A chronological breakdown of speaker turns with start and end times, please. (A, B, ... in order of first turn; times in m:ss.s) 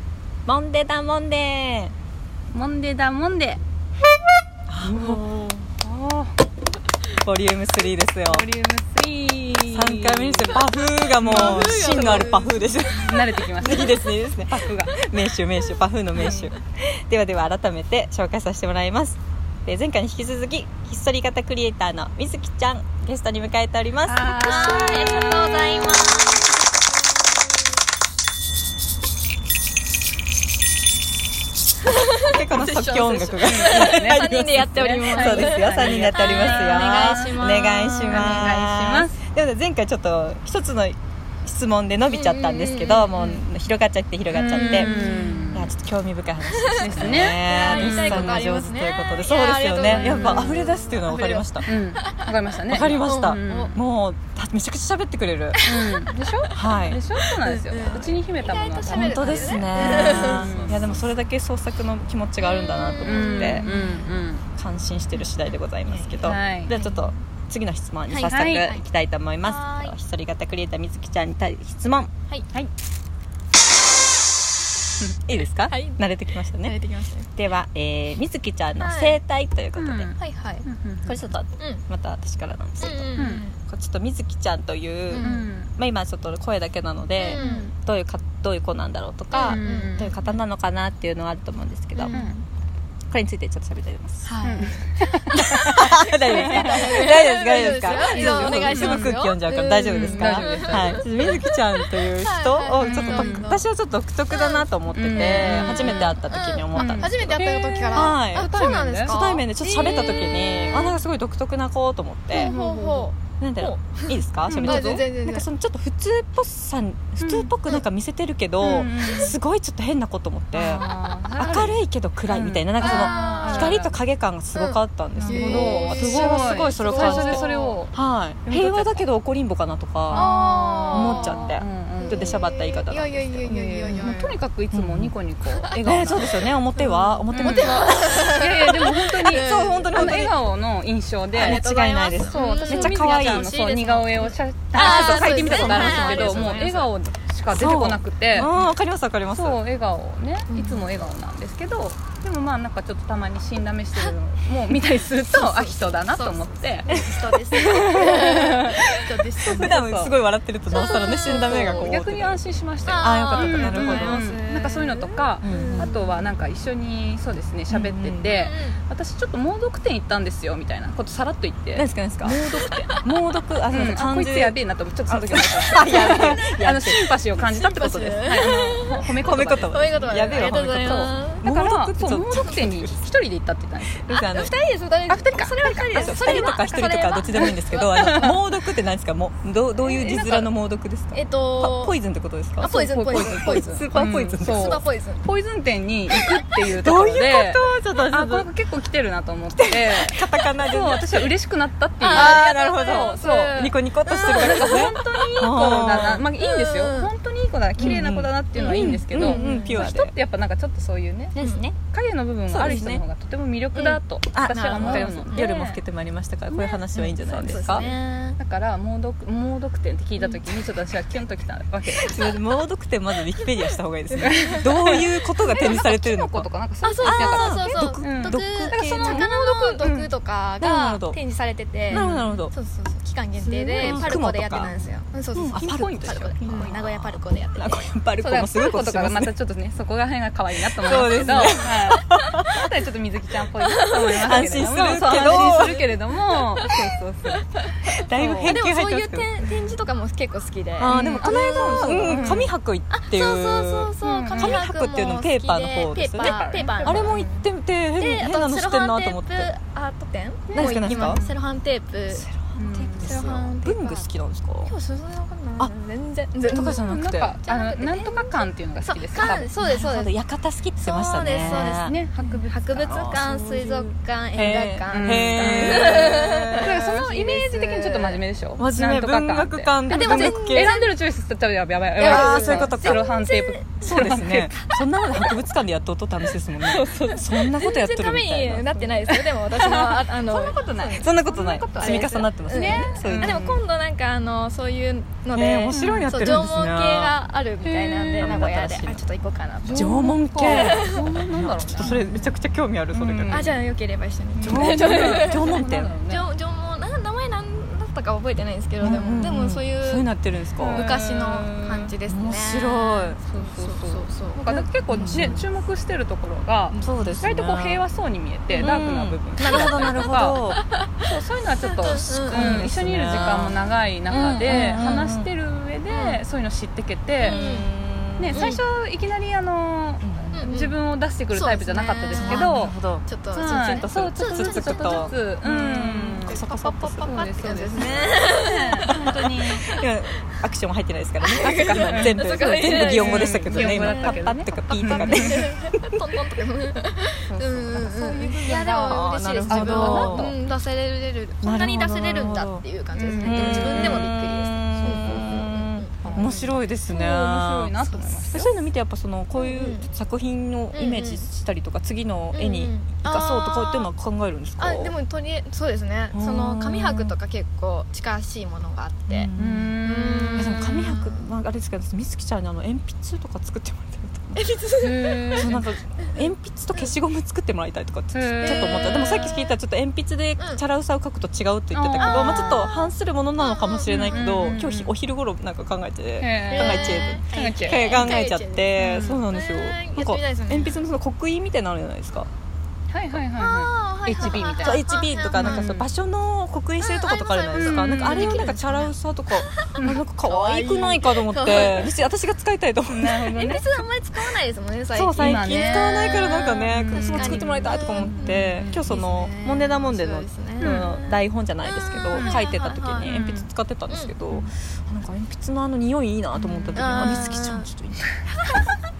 0:00.4-0:01.9 A
0:02.5-0:03.6 B
0:04.7-0:05.6 A
0:04.8-0:06.4 B
0:07.2-0:08.5 A
0:08.2-0:10.7 B
0:09.7-0:25.0 A
0:11.2-0:15.0 B
0:11.2-0:12.7 C
0:16.2-0:16.5 B
0:24.0-0:26.2 B
0:24.3-0:27.3 C
0:31.8-0:38.5 C
0:32.3-0:44.9 A
0:32.5-0:37.5 B
0:38.1-0:39.1 B
0:42.1-0:43.1 C
0:43.1-0:43.4 B
0:44.3-0:45.7 B
0:44.5-0:45.6 C
0:45.5-0:51.6 A
0:46.5-0:52.3 C
0:46.8-0:48.3 B
0:49.8-0:50.6 B
0:51.6-0:53.8 B
0:52.7-0:55.6 A
0:52.9-0:53.7 C
0:55.5-1:00.9 C
0:55.6-1:01.1 B
0:56.5-0:57.0 A
0:58.9-1:03.7 A
1:02.4-1:04.1 C
1:03.0-1:04.4 B
1:04.6-1:12.1 A
1:05.4-1:07.2 C
1:06.2-1:06.7 B
1:08.1-1:08.8 C
1:08.2-1:08.8 B
1:09.4-1:10.0 C
1:15.3-1:16.7 A
1:15.7-1:16.0 C
1:16.6-1:17.3 C
1:17.3-1:20.1 A
1:18.8-1:19.2 C
1:19.8-1:21.3 B
1:20.2-1:20.6 C
1:21.0-1:32.2 A
1:21.6-1:21.8 C
1:22.8-1:23.6 C
1:23.2-1:23.4 B
1:25.1-1:25.5 C
1:25.2-1:25.7 B
1:27.2-1:27.7 C
1:27.2-1:27.7 B
1:29.3-1:30.1 C
1:29.4-1:30.3 B
1:31.9-1:32.4 C
1:32.1-1:32.4 B
1:33.1-1:34.4 A
1:34.2-1:43.6 C
1:34.4-1:35.8 B
1:35.4-1:48.5 A
1:36.3-1:37.1 B
1:37.9-1:39.3 B
1:39.8-1:41.4 B
1:42.8-1:43.5 B
1:44.3-1:51.0 C
1:44.9-1:49.2 B
1:49.0-1:52.5 A
1:52.3-1:53.1 B
1:52.3-1:55.4 C
1:53.4-2:00.8 A
1:54.5-1:55.0 B
1:57.2-1:57.5 B
1:58.6-1:59.4 B
2:00.5-2:04.0 B
2:01.4-2:10.3 A
2:02.8-2:03.8 C
2:04.5-2:07.8 C
2:05.2-2:09.0 B
2:10.1-2:12.4 B
2:10.1-2:14.4 C
2:10.9-2:14.2 A
2:13.5-2:21.6 B
2:14.7-2:15.1 A
2:15.5-2:20.3 C
2:15.8-2:20.3 A
2:21.3-2:26.9 A
2:21.4-2:26.8 C
2:22.2-2:28.6 B
2:27.5-2:29.6 A
2:28.4-2:28.7 C
2:29.3-2:37.0 B
2:30.5-2:31.1 C
2:35.2-2:39.9 C
2:36.9-2:38.7 A
2:37.6-2:53.0 B
2:39.4-2:42.4 A
2:40.7-2:41.9 C
2:42.8-2:46.3 C
2:43.0-2:44.2 A
2:45.4-2:45.9 A
2:47.7-2:48.4 A
2:48.3-2:48.8 C
2:51.7-2:57.2 A
2:53.7-3:04.1 B
2:57.4-2:59.1 C
2:59.1-3:03.0 A
2:59.7-3:01.4 C
3:04.0-3:04.5 A
3:04.1-3:08.4 C
3:05.1-3:06.3 B
3:05.9-3:14.8 A
3:07.4-3:08.4 B
3:09.8-3:10.5 B
3:11.1-3:12.0 C
3:12.6-3:15.2 C
3:12.6-3:23.6 B
3:16.7-3:18.5 A
3:19.6-3:21.3 A
3:22.0-3:25.2 C
3:22.1-3:26.3 A
3:24.3-3:31.4 B
3:26.4-3:27.1 C
3:27.8-3:30.1 A
3:28.5-3:29.9 C
3:31.3-3:31.8 A
3:31.4-3:31.7 C
3:31.9-3:35.8 B
3:32.5-3:33.0 A
3:33.8-3:37.9 A
3:34.5-3:35.5 C
3:36.5-3:38.4 C
3:36.6-3:42.2 B
3:42.0-3:46.5 A
3:44.2-3:50.1 B
3:46.8-3:57.9 C
3:47.0-3:49.3 A
3:50.6-3:51.2 A
3:51.9-3:52.4 B
3:51.9-3:52.5 A
3:53.4-3:54.8 B
3:53.8-3:54.7 A
3:55.3-3:59.3 A
3:55.6-3:56.7 B
3:58.2-4:08.6 B
4:00.6-4:02.4 A
4:03.7-4:07.9 C
4:04.2-4:05.8 A
4:08.0-4:09.3 A
4:08.4-4:12.4 C
4:09.4-4:09.7 B
4:10.8-4:19.5 A
4:10.9-4:12.5 B
4:12.9-4:17.2 C
4:14.0-4:15.1 B
4:16.2-4:17.4 B
4:18.0-4:22.3 C
4:20.5-4:21.4 B
4:20.5-4:21.2 A
4:22.1-4:24.7 A
4:22.5-4:23.3 B
4:23.0-4:24.1 C
4:24.6-4:26.9 C
4:26.4-4:29.5 B
4:26.5-4:27.4 A
4:27.4-4:30.1 C
4:29.2-4:32.0 A
4:30.8-4:38.2 C
4:31.4-4:44.5 B
4:32.8-4:33.3 A
4:34.4-4:36.8 A
4:38.6-4:40.7 A
4:39.9-4:41.0 C
4:42.0-4:43.8 C
4:42.0-4:43.0 A
4:43.8-4:48.9 A
4:44.5-4:45.4 C
4:46.2-4:51.2 C
4:49.0-4:53.4 B
4:51.0-4:53.6 A
4:51.8-5:01.0 C
4:55.3-4:57.2 A
4:55.7-4:56.1 B
4:57.6-4:58.5 B
4:58.2-4:59.0 A
4:59.6-5:02.3 B
4:59.7-5:03.5 A
5:01.8-5:02.2 C
5:02.9-5:03.6 B
5:03.3-5:10.1 C
5:04.3-5:06.3 B
5:04.4-5:05.9 A
5:08.8-5:10.9 A
5:08.8-5:09.1 B
5:10.6-5:11.9 B
5:10.6-5:15.4 C
5:12.1-5:13.2 A
5:13.2-5:20.4 B
5:14.9-5:15.4 A
5:16.8-5:17.8 A
5:18.6-5:20.6 A
5:19.5-5:20.9 C
5:21.0-5:27.4 B
5:21.7-5:22.7 C
5:22.3-5:23.6 A
5:24.1-5:25.3 A
5:24.1-5:24.9 C
5:25.9-5:26.2 C
5:27.2-5:28.6 A
5:27.2-5:27.7 C
5:28.2-5:32.8 B
5:28.3-5:28.6 C
5:30.0-5:30.5 A
5:30.3-5:30.8 C
5:31.3-5:39.2 C
5:32.2-5:38.3 A
5:33.3-5:36.4 B
5:37.0-5:39.7 B
5:38.9-5:45.9 A
5:41.2-5:56.3 C
5:41.5-5:45.5 B
5:47.3-5:50.6 B
5:48.8-5:50.3 A
5:51.4-5:52.6 A
5:52.9-5:54.2 B
5:53.2-6:04.9 A
5:54.8-5:55.4 B
5:56.0-5:58.6 B
5:59.4-5:59.9 C
6:00.7-6:01.2 C
6:02.3-6:03.9 C
6:04.6-6:09.3 C
6:06.1-6:07.1 A
6:09.1-6:09.8 A
6:09.4-6:10.8 B
6:09.8-6:11.3 C
6:10.4-6:14.5 A
6:14.4-6:16.2 C
6:14.8-6:15.6 B
6:15.4-6:32.3 A
6:18.1-6:18.8 B
6:18.4-6:19.5 C
6:21.7-6:22.7 B
6:22.0-6:24.3 C
6:23.9-6:24.9 B
6:26.2-6:28.2 B
6:26.5-6:30.9 C
6:28.8-6:29.2 B
6:32.9-6:34.8 B
6:33.3-6:35.7 C
6:34.2-6:43.4 A
6:35.4-6:35.9 B
6:36.8-6:38.9 C
6:37.5-6:38.8 B
6:39.5-6:41.9 C
6:42.9-6:43.8 B
6:43.3-6:53.1 C
6:44.9-6:58.1 A
6:45.1-6:48.8 B
6:50.6-6:50.9 B
6:52.1-6:53.5 B
6:53.9-6:54.1 C
6:56.3-6:57.3 B
6:56.8-6:57.7 C
6:58.4-6:58.7 C